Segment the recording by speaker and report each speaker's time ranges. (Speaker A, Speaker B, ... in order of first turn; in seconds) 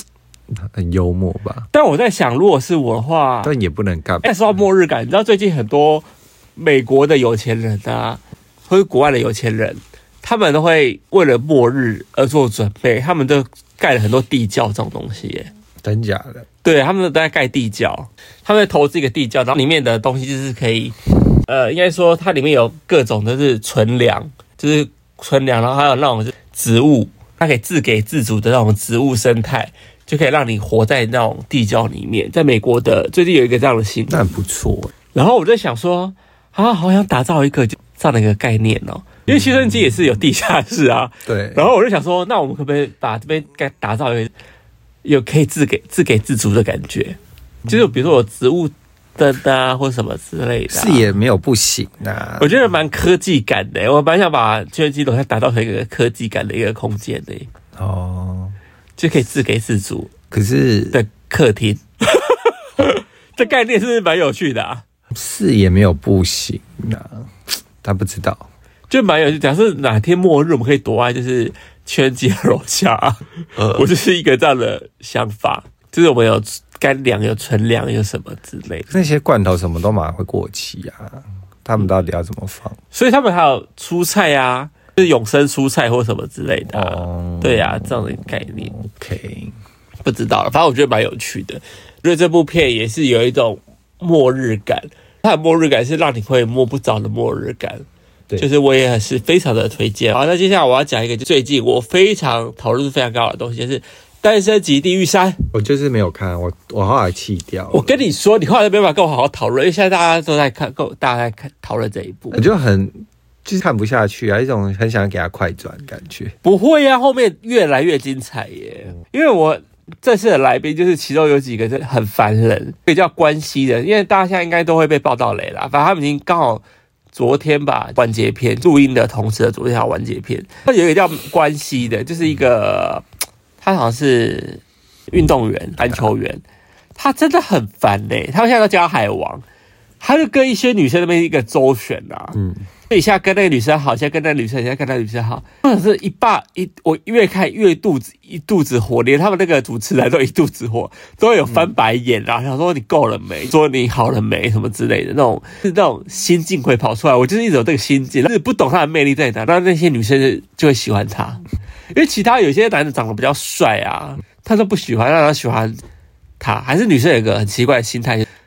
Speaker A: 0.5-1.7, 3.4-4.3, 15.8-16.4, 34.1-34.9, 39.3-39.9, 41.2-41.7, 50.7-52.6, 57.8-58.5, 60.3-61.0, 65.1-67.3, 67.8-68.5, 73.6-73.8, 78.9-82.8, 86.7-89.5, 105.5-108.0, 112.3-116.3, 142.3-142.7, 151.5-151.7
Speaker B: 1.7-3.5, 4.2-15.5, 16.6-34.3, 35.1-44.3, 45.0-51.1, 52.4-57.5, 59.0-60.1, 60.9-64.8, 68.9-78.9, 82.9-88.7, 90.0-97.8, 98.4-105.5, 107.7-112.4, 116.4-133.0, 133.6-136.4, 136.9-139.4, 140.0-142.4, 142.9-161.4, 161.9-165.8, 166.4-168.3